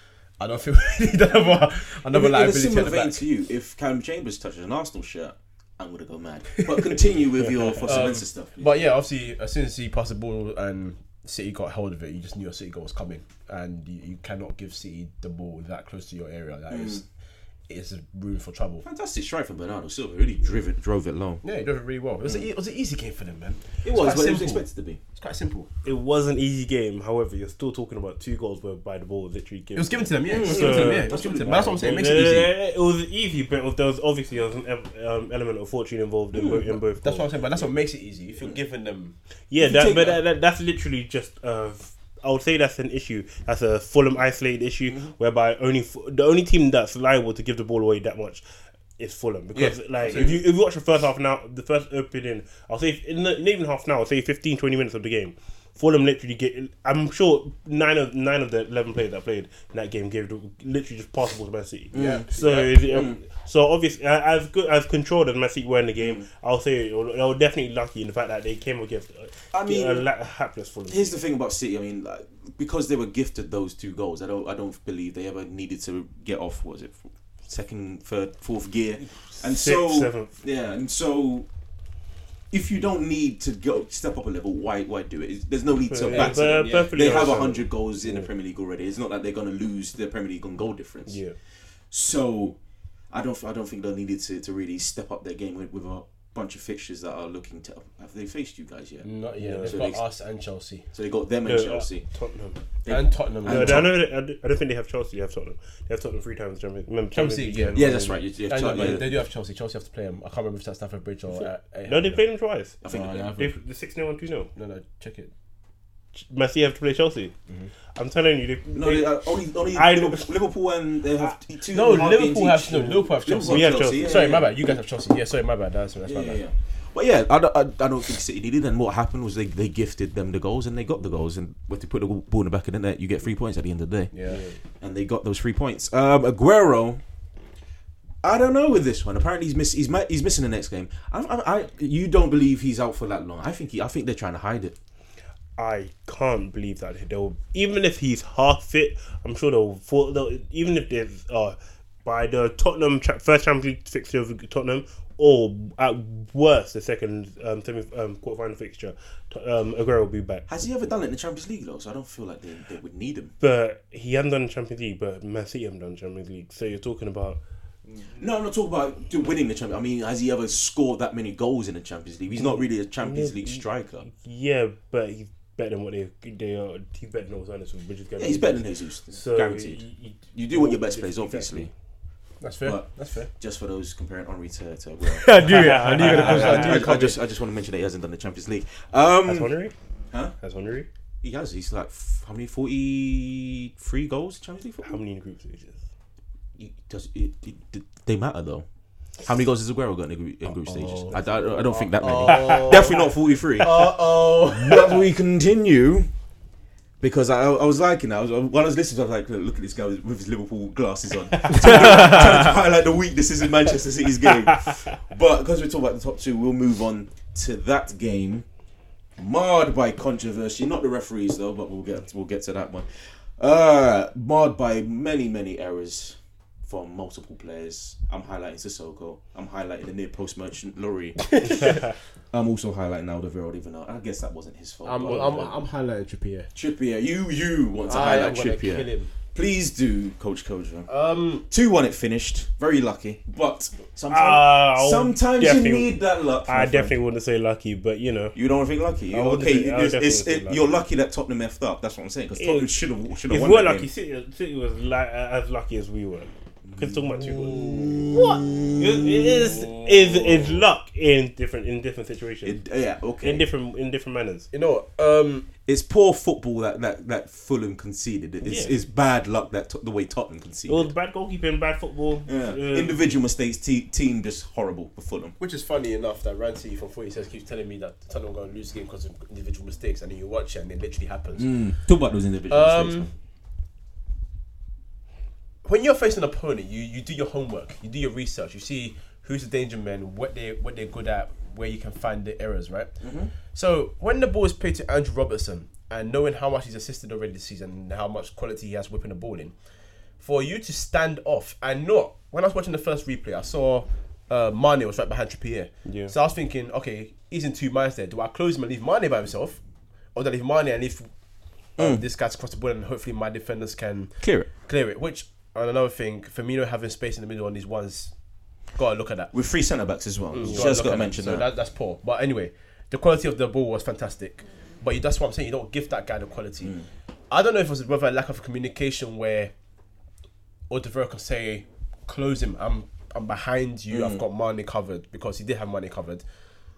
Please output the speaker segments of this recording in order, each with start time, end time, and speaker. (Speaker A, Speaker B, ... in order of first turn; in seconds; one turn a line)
Speaker A: 0.4-3.2
Speaker B: 2.1-8.9
Speaker A: 6.6-7.0
Speaker C: 7.4-7.8
Speaker A: 7.8-17.0
Speaker B: 16.7-17.0
Speaker A: 17.7-18.8
Speaker B: 18.8-21.4
Speaker A: 21.4-25.7
Speaker B: 23.8-25.0
Speaker C: 25.8-31.2
Speaker A: 29.7-32.5
Speaker B: 30.3-32.2
Speaker C: 31.8-37.6
Speaker B: 36.3-36.6
Speaker A: 37.0-39.1
Speaker C: 39.5-48.4
Speaker B: 39.6-40.2
Speaker C: 49.0-71.2
Speaker A: 49.5-50.4
Speaker B: 61.9-62.3
Speaker A: 61.9-62.7
Speaker B: 62.9-63.2
Speaker B: 66.0-66.2
Speaker B: 69.5-70.0
Speaker B: 70.9-81.5
Speaker C: 79.3-80.4
Speaker B: 82.5-91.2
Speaker C: 85.9-88.3
Speaker A: 86.1-87.3
Speaker C: 91.1-91.3
Speaker B: 91.9-92.6
Speaker B: 93.1-99.0
Speaker A: 99.0-100.9
Speaker C: 99.4-99.8
Speaker B: 99.6-100.0
Speaker B: 100.9-102.0
Speaker C: 101.4-102.6
Speaker B: 102.8-103.9
Speaker A: 102.9-103.9
Speaker C: 103.5-108.2
Speaker A: 107.1-112.2
Speaker B: 107.7-109.0
Speaker C: 111.3-112.8
Speaker A: 112.8-113.5
Speaker B: 112.8-113.4
Speaker C: 113.4-114.5
Speaker A: 114.5-115.3
Speaker C: 116.1-117.3
Speaker C: 117.9-119.2
Speaker B: 118.7-124.5
Speaker C: 119.7-120.3
Speaker A: 121.7-126.4
Speaker C: 123.4-124.1
Speaker B: 126.1-134.1
Speaker A: 134.1-134.4
Speaker C: 134.3-134.6
Speaker B: 134.8-137.0
Speaker B: 138.2-144.8
Speaker C: 145.6-160.4
Speaker B: 160.5-163.3
Speaker C: 163.4-167.4
Speaker B: 168.0-174.0
Speaker C: 172.4-181.7
Speaker B: 178.2-179.8
Speaker B: 180.3-181.7
Speaker A: 182.4-183.3
Speaker B: 182.6-189.5
Speaker A: 185.1-187.2
Speaker C: 185.4-187.0
Speaker C: 189.2-189.7
Speaker C: 190.4-190.9
Speaker B: 191.2-195.0
Speaker C: 194.8-195.8
Speaker B: 196.6-198.7
Speaker B: 199.2-206.1
Speaker A: 200.5-205.0
Speaker C: 202.2-202.9
Speaker B: 207.0-218.4
Speaker C: 211.3-212.2
Speaker A: 211.6-212.5
Speaker C: 214.5-214.8
Speaker B: 219.2-235.6
Speaker A: 231.3-231.7
Speaker A: 234.8-236.5
Speaker B: 236.5-240.9
Speaker A: 237.8-239.1
Speaker A: 240.9-241.4
Speaker B: 241.5-246.9
Speaker C: 244.1-248.3
Speaker B: 248.3-253.9
Speaker C: 249.1-250.6
Speaker C: 252.3-262.6
Speaker B: 256.6-259.6
Speaker B: 262.4-263.4
Speaker C: 263.2-264.5
Speaker A: 264.5-265.5
Speaker B: 265.6-270.9
Speaker C: 268.4-268.7
Speaker C: 270.7-273.0
Speaker B: 272.3-275.4
Speaker A: 275.4-281.5
Speaker B: 281.4-283.1
Speaker A: 282.5-283.1
Speaker A: 285.6-292.9
Speaker B: 293.0-293.3
Speaker A: 293.5-299.5
Speaker A: 300.2-309.6
Speaker C: 305.9-306.1
Speaker A: 310.1-311.1
Speaker B: 311.8-312.0
Speaker A: 311.8-314.1
Speaker B: 314.2-314.5
Speaker A: 314.6-318.1
Speaker A: 318.7-319.3
Speaker B: 319.3-321.4
Speaker A: 320.3-329.5
Speaker A: 330.7-336.2
Speaker B: 333.9-334.2